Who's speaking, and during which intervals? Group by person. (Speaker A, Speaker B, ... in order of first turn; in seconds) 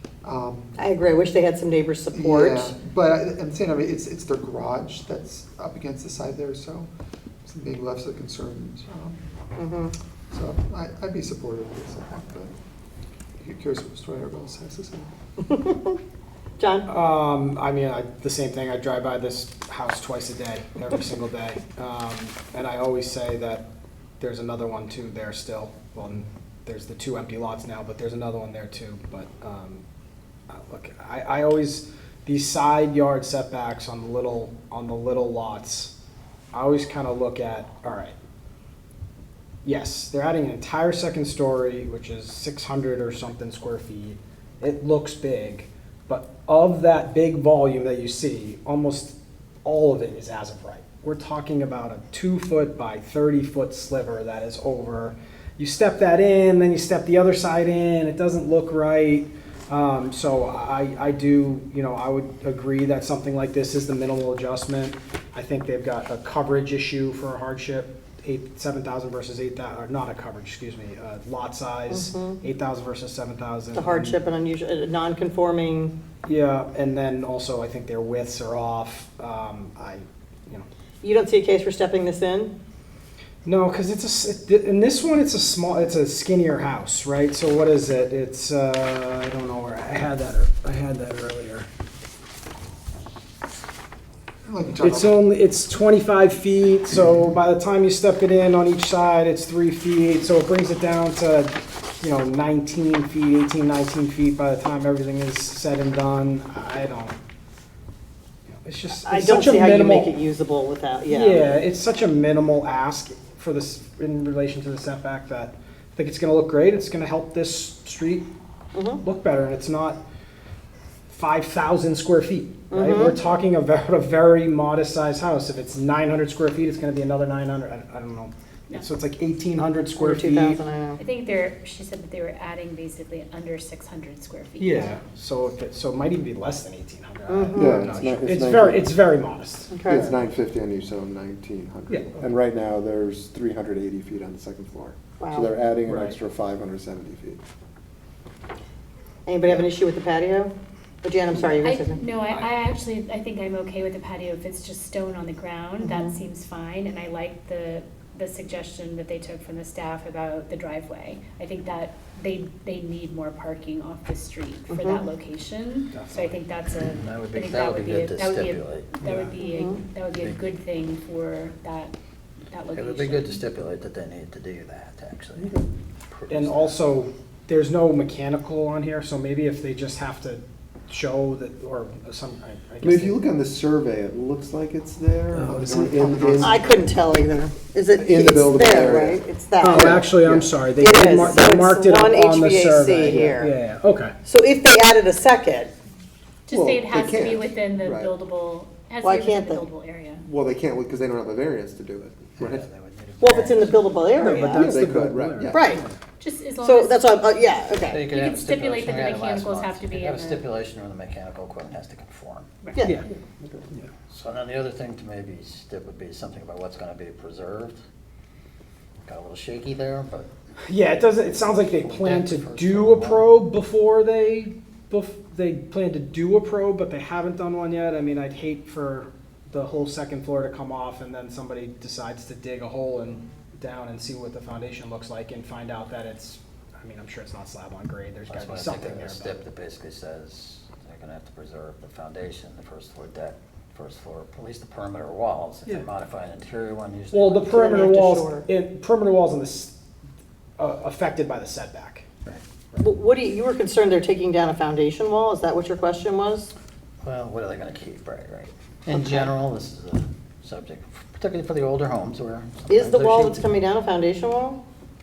Speaker A: 0.2-0.7, 2.1-6.9, 7.5-9.2, 10.3-12.5, 13.4-15.1, 94.5-95.1, 185.6-186.3
Speaker B: 0.8-2.7, 9.6-9.9, 15.4-16.0, 16.6-16.9, 71.9-72.4, 73.7-75.9, 81.0-82.5, 109.0-111.4, 118.7-119.0, 122.7-123.2, 130.0-131.0, 137.3-137.9, 139.7-140.1, 145.2-145.5, 149.2-152.0, 155.8-156.2, 164.7-165.0, 169.4-169.8, 186.1-190.1, 190.8-193.5, 194.2-195.7, 199.0-199.7, 203.2-204.8, 205.5-205.8, 206.6-208.1, 247.4-248.5, 252.8-256.5, 258.9-259.3, 262.7-264.6
Speaker C: 16.9-23.6, 24.2-29.8, 30.5-35.9, 36.5-38.1, 39.6-74.2, 76.2-80.7, 83.4-91.7, 94.8-107.2, 108.6-110.1, 111.1-118.3, 119.0-120.0, 121.1-130.6, 134.6-139.7, 141.9-142.2, 145.9-146.2, 165.9-166.4, 169.0-169.3, 176.3-183.2, 185.3-186.6, 189.6-194.2, 204.2-206.0, 212.8-213.1, 220.6-239.3, 247.1-249.7, 250.6-252.1
Speaker D: 131.0-135.0, 151.6-171.9, 172.5-173.4, 196.5-200.2, 206.2-210.5
Speaker E: 137.6-138.9, 139.8-147.4, 182.8-186.6, 187.9-190.5, 193.0-193.4, 196.5-198.1, 200.2-202.7, 204.5-205.8, 213.1-213.7
Speaker F: 166.7-169.0, 170.1-170.4, 172.7-176.8, 202.4-204.0, 207.7-212.7, 214.1-217.8, 219.0-220.3, 221.5-223.3, 238.3-247.6, 257.0-263.4